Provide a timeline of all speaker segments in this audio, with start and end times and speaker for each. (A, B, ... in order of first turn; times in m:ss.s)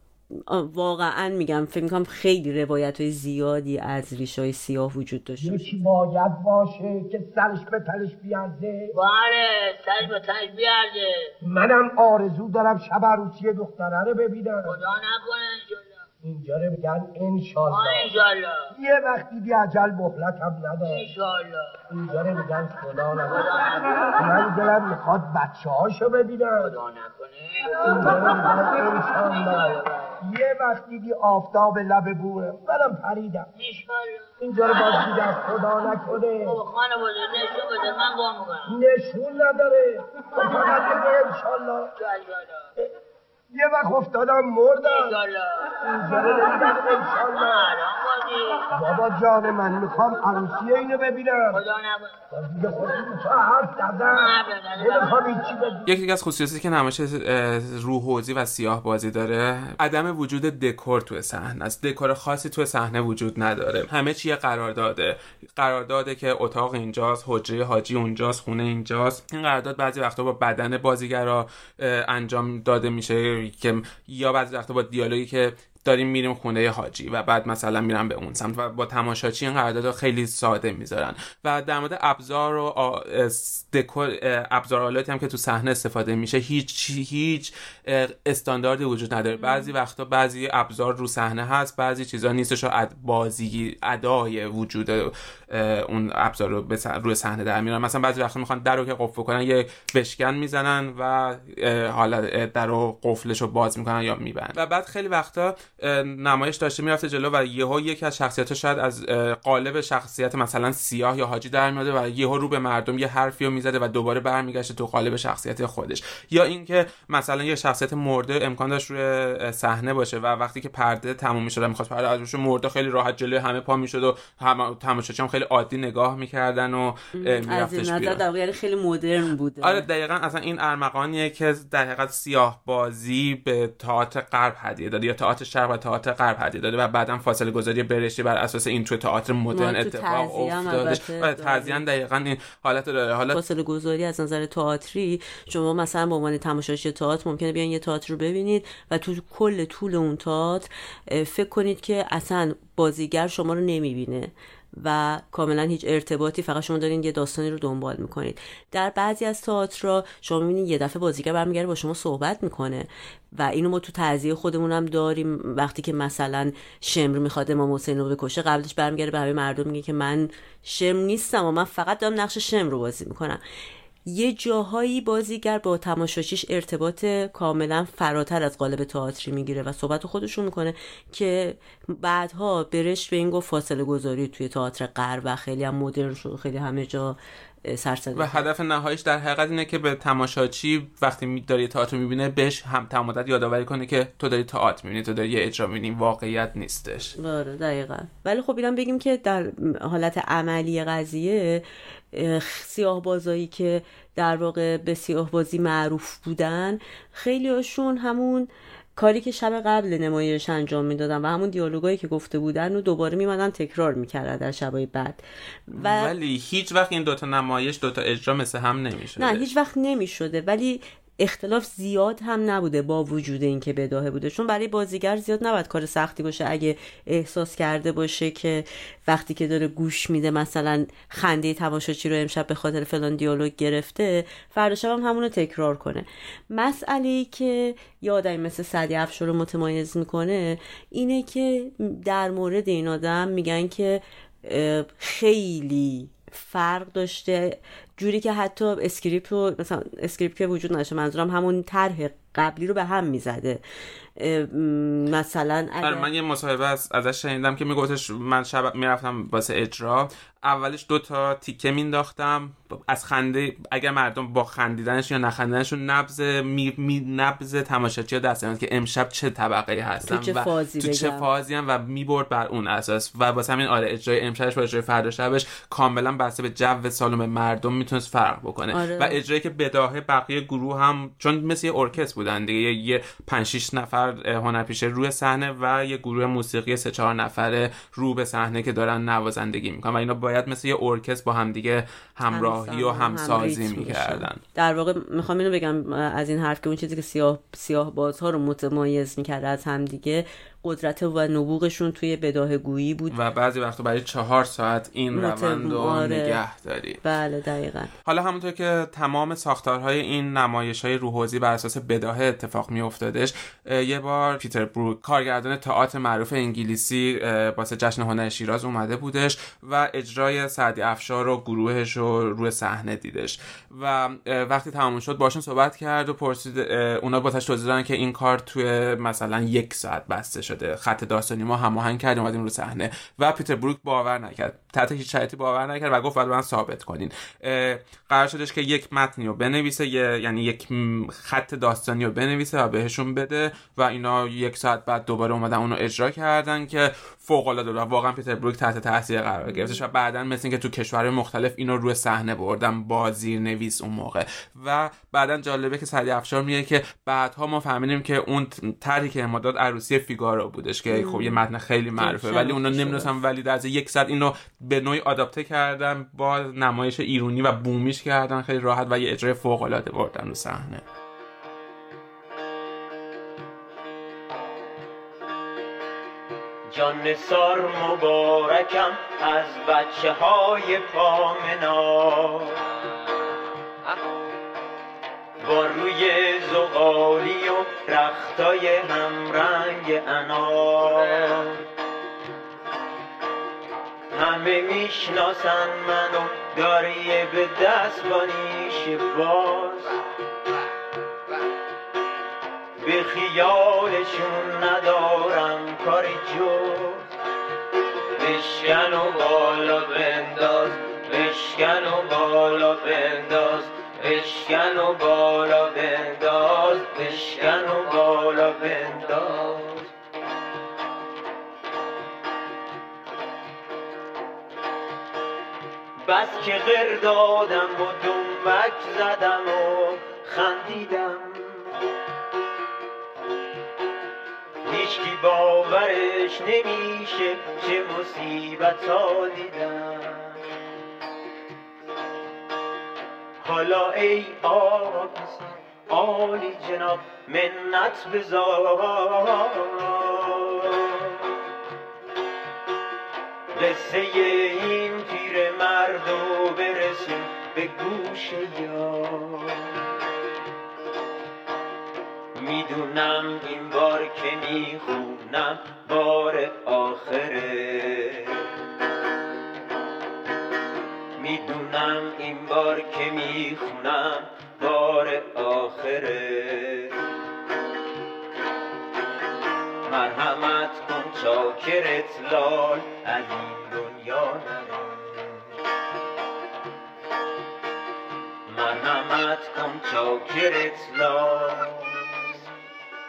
0:00.3-0:05.8 A
0:05.4-0:08.9 B
0:08.9-0:11.3 C
0:11.5-0:14.7 B
0:14.6-0:16.0 C
0:16.2-0:18.1 B
0:17.7-0:18.7 C
0:18.8-0:21.0 B
0:20.8-0:21.8 C
0:21.9-0:26.8 B
0:23.2-0:24.5 C
0:26.6-0:30.2 C
0:27.7-0:29.7 B
0:30.2-0:33.5 B
0:33.5-0:38.8 C
0:34.4-0:36.6 B
0:38.7-0:41.9 B
0:42.0-0:42.7 C
0:43.5-0:45.2 B
0:44.8-0:49.0 C
0:45.8-0:47.7 B
0:48.7-0:51.6 B
0:51.5-0:52.2 C
0:52.3-0:55.8 B
0:54.1-0:55.5 C
0:55.9-2:08.2 D
1:29.4-1:29.7 A
2:07.2-2:09.9 A
2:09.6-2:23.4 D
2:19.5-2:21.8 A
2:23.3-2:53.4 A
2:54.1-3:08.4 A
3:08.2-3:17.2 D
3:17.2-3:36.1 A
3:35.7-3:39.5 D
3:39.2-4:13.6 A
4:14.2-4:16.1 A
4:15.8-4:54.4 D
4:30.0-4:31.3 A
4:38.7-4:39.2 A
4:52.3-5:03.2 A
5:03.1-5:07.0 D
5:05.1-5:06.4 A
5:07.0-5:07.9 A
5:08.0-6:10.8 D
5:49.5-5:49.8 A
6:00.9-6:01.4 A
6:02.0-6:03.1 A
6:16.7-6:22.8 E
6:25.4-6:31.7 E
6:34.1-6:40.0 E
6:42.8-6:47.1 E
6:48.2-6:59.9 E
7:06.0-7:11.7 E
7:14.6-7:20.4 E
7:23.4-7:31.2 E
7:33.5-7:39.8 E
7:42.4-7:48.5 E
7:51.2-7:57.0 E
7:59.8-8:05.4 E
8:08.5-8:12.4 E